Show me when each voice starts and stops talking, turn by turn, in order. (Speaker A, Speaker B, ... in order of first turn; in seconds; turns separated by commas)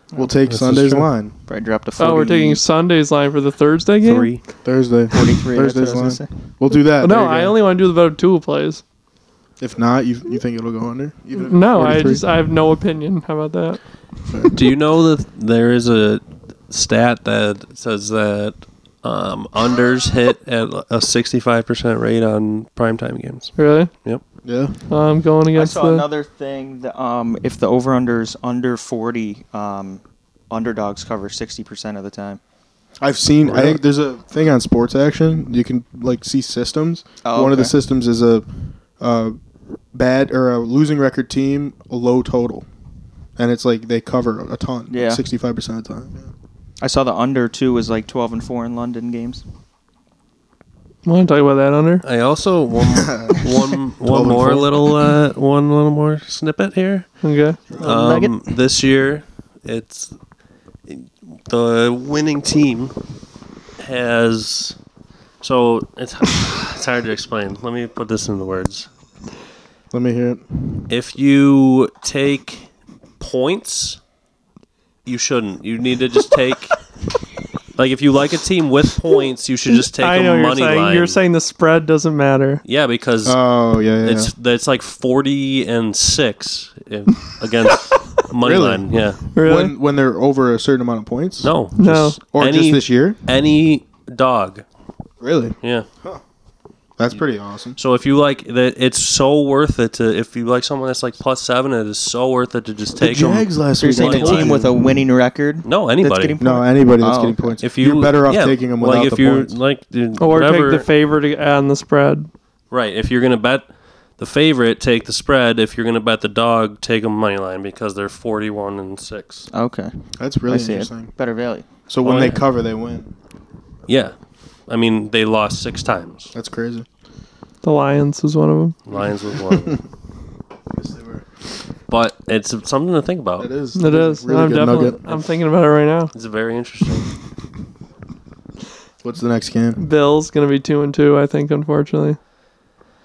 Speaker A: 0.1-1.3, Speaker B: 0.5-1.1, Speaker C: 1.5-2.6, Speaker D: 2.0-4.3, Speaker B: 4.0-4.4, Speaker A: 4.6-7.5, Speaker C: 5.1-6.3, Speaker D: 7.0-8.8, Speaker A: 9.6-12.3, Speaker D: 11.3-13.8, Speaker B: 14.5-24.2, Speaker D: 23.6-23.9, Speaker A: 24.4-24.7, Speaker D: 24.9-26.0, Speaker C: 25.5-32.4, Speaker A: 33.0-38.5, Speaker B: 33.4-33.7, Speaker C: 37.2-37.7, Speaker A: 39.0-39.4, Speaker A: 39.9-42.6, Speaker A: 43.4-46.3, Speaker C: 44.9-45.2, Speaker C: 46.8-49.4, Speaker D: 51.0-52.0, Speaker B: 52.0-57.2, Speaker A: 52.9-54.9, Speaker D: 57.2-57.6, Speaker C: 57.8-58.3, Speaker B: 57.8-60.1, Speaker B: 60.9-62.9, Speaker B: 63.8-64.8, Speaker B: 65.4-68.9, Speaker A: 69.9-70.9, Speaker B: 70.9-72.7, Speaker B: 73.2-74.0, Speaker B: 75.0-76.8, Speaker B: 77.8-81.2, Speaker D: 79.7-82.6, Speaker B: 82.6-83.4, Speaker A: 83.2-84.3, Speaker B: 84.0-89.2, Speaker A: 88.4-91.5, Speaker D: 89.3-89.7, Speaker B: 91.4-94.6, Speaker D: 91.8-92.2, Speaker A: 92.3-93.2, Speaker A: 95.2-96.2, Speaker B: 95.6-95.9, Speaker A: 97.0-97.8, Speaker B: 97.8-104.5, Speaker A: 103.0-104.9, Speaker C: 103.8-107.6, Speaker B: 105.6-106.3, Speaker A: 106.4-109.5, Speaker B: 107.6-110.9, Speaker D: 110.2-112.3, Speaker B: 112.7-113.7, Speaker B: 114.2-119.5, Speaker C: 119.5-120.0, Speaker A: 120.2-121.1, Speaker C: 120.5-121.7, Speaker A: 121.9-123.1, Speaker B: 122.0-122.4, Speaker B: 123.9-124.1, Speaker B: 124.7-126.3, Speaker A: 126.3-126.9, Speaker D: 127.6-128.8, Speaker B: 128.9-129.8, Speaker A: 130.7-131.2, Speaker B: 131.9-133.5, Speaker A: 133.4-135.0, Speaker D: 133.7-136.1, Speaker B: 136.1-137.1, Speaker A: 139.0-139.8, Speaker D: 139.8-142.2